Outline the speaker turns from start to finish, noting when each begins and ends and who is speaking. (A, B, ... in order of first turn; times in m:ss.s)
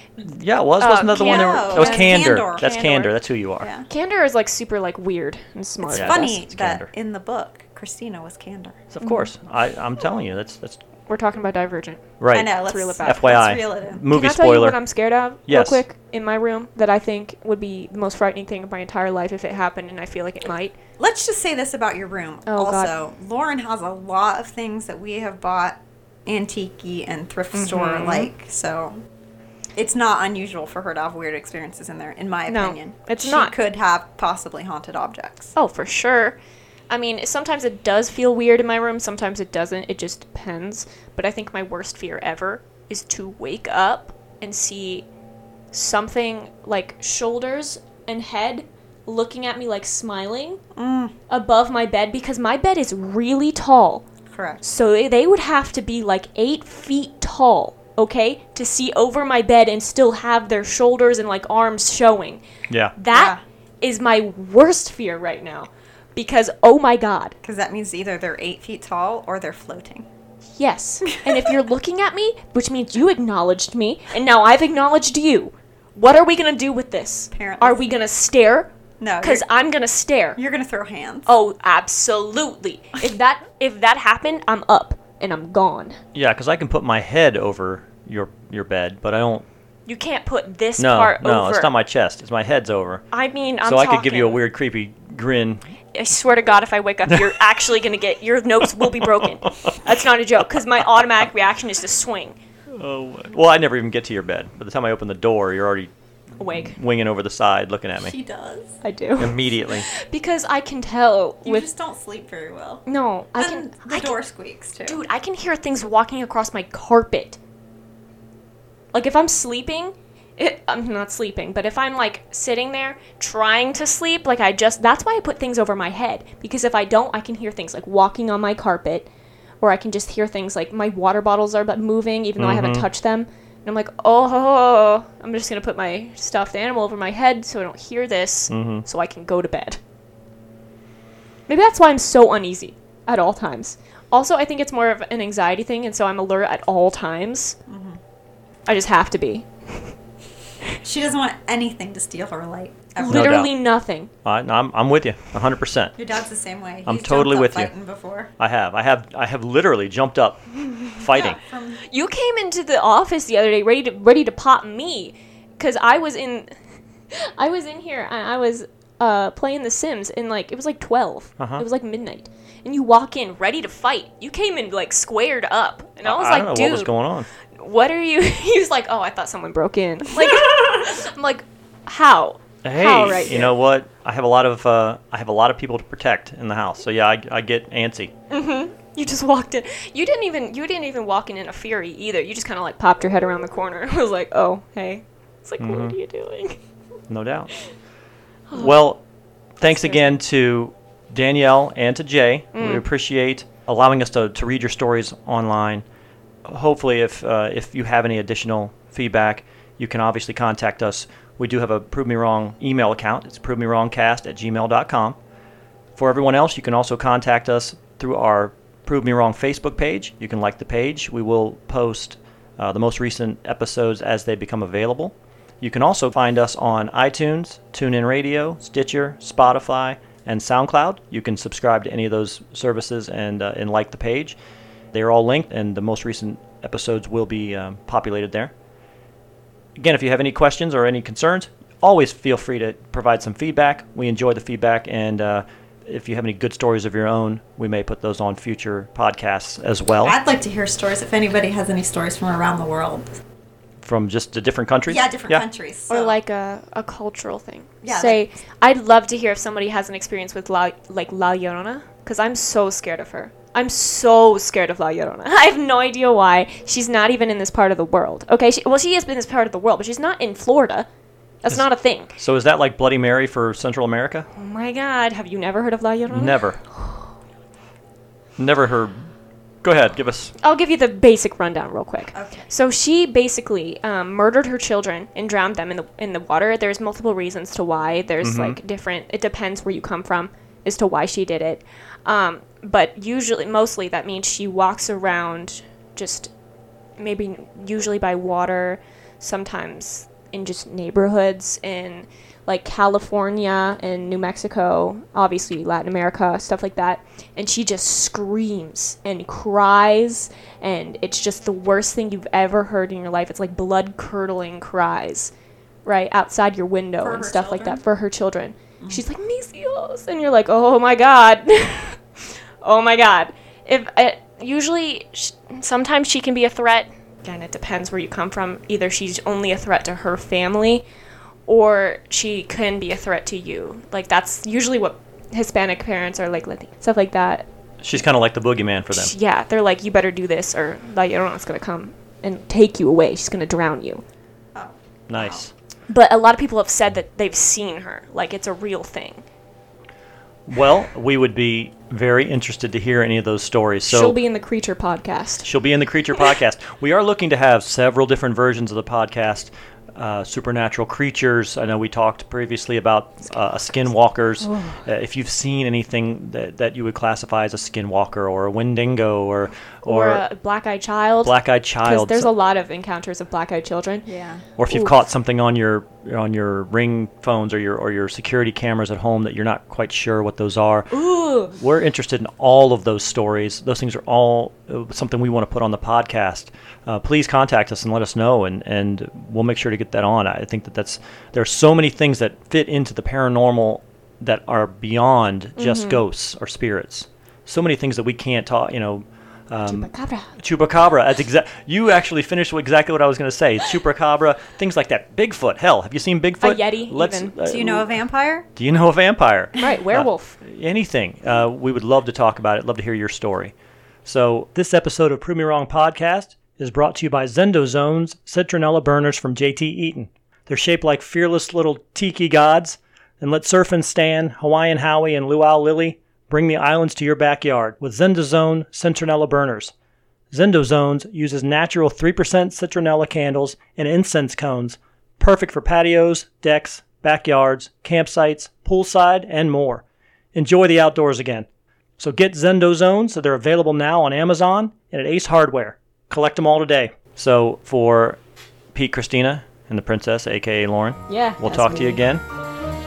0:00.2-0:03.7 A
0:00.8-0:03.2 B
0:01.1-0:02.7 C
0:03.6-0:03.9 C
0:03.9-0:06.4 B
0:05.9-0:08.8 C
0:05.9-0:06.9 A
0:08.9-0:10.8 A
0:11.1-0:13.2 B
0:12.2-0:14.8 A
0:12.3-0:14.0 C
0:14.1-0:20.7 B
0:15.5-0:15.8 A
0:21.0-0:28.9 C
0:22.5-0:22.9 B
0:27.5-0:28.3 B
0:29.8-0:35.5 C
0:32.5-0:33.6 B
0:35.6-0:36.4 B
0:36.9-0:45.1 B
0:45.7-0:50.6 B
0:50.8-0:51.2 C
0:51.3-0:54.0 B
0:54.3-0:54.6 C
0:54.6-1:02.4 B
1:03.0-1:07.4 B
1:03.1-1:03.4 C
1:07.4-1:10.1 C
1:10.6-1:18.7 B
1:11.2-1:11.5 C
1:17.3-1:17.9 C
1:19.0-1:19.4 C
1:19.2-1:20.4 B
1:20.4-1:21.3 C
1:21.3-1:26.0 B
1:26.1-1:29.4 A
1:29.9-1:31.7 B
1:30.8-1:33.0 A
1:33.1-1:34.4 B
1:33.6-1:35.6 A
1:35.9-1:42.4 B
1:38.8-1:39.8 A
1:42.7-1:45.9 A
1:46.4-1:46.8 B
1:46.5-1:48.1 A
1:48.0-1:48.8 C
1:48.8-1:51.7 B
1:49.2-1:49.9 A
1:51.4-1:52.8 C
1:52.9-1:54.2 B
1:53.4-1:55.0 C
1:54.8-1:57.4 B
1:58.9-2:09.1 B
2:09.6-2:19.8 B
2:12.4-2:12.9 A
2:18.5-2:18.8 A
2:21.5-2:27.6 B
2:27.7-2:28.0 C
2:28.7-2:29.9 B
2:30.8-2:33.4 C
2:33.0-2:34.1 B
2:33.1-2:33.5 A
2:34.2-2:36.0 A
2:36.0-2:38.3 C
2:36.9-2:37.7 A
2:38.4-2:41.4 A
2:41.1-2:41.8 C
2:41.9-2:46.5 B
2:47.1-2:57.0 B
2:51.4-2:51.6 A
2:56.0-2:57.3 A
2:57.6-3:03.5 B
3:02.6-3:08.1 A
3:08.3-3:16.6 B
3:15.6-3:16.0 A
3:17.1-3:17.5 A
3:18.5-3:18.8 B
3:18.5-3:19.0 A
3:19.6-3:25.8 A
3:19.6-3:20.2 B
3:22.6-3:22.8 B
3:26.5-3:35.2 A
3:36.0-3:54.4 A
3:54.9-3:58.5 A
3:59.8-4:10.2 A
4:10.0-4:13.2 C
4:13.8-4:15.4 A
4:14.9-4:16.2 C
4:15.9-4:30.9 B
4:17.8-4:18.2 C
4:31.4-4:32.1 B
4:32.2-4:34.3 A
4:34.4-4:36.5 B
4:36.1-4:36.6 A
4:38.4-4:39.1 A
4:39.6-4:40.3 A
4:40.4-4:56.3 B
4:42.1-4:42.5 C
4:48.2-4:48.6 A
4:57.0-5:15.3 B
5:15.8-5:30.8 B
5:17.0-5:17.8 C
5:31.5-5:37.4 B
5:37.8-5:39.1 A
5:38.9-5:44.0 B
5:44.6-5:45.4 C
5:45.1-5:45.5 A
5:45.9-5:49.2 B
5:50.5-5:54.2 A
5:53.9-5:55.5 B
5:55.4-6:10.2 A
6:04.5-6:04.8 B
6:09.8-6:14.1 B
6:11.2-6:12.3 A
6:14.1-6:14.4 C
6:14.6-6:21.0 A
6:14.7-6:15.0 B
6:20.9-6:21.5 B
6:21.5-6:48.0 A
6:35.6-6:36.0 B
6:39.7-6:40.3 B
6:46.4-6:47.4 B
6:47.5-6:48.5 C
6:48.6-6:53.5 A
6:49.6-6:50.4 B
6:54.0-7:09.7 A
7:10.3-7:19.8 A
7:20.3-7:21.5 A
7:22.0-7:28.2 A
7:28.8-7:32.2 A
7:31.1-7:32.0 B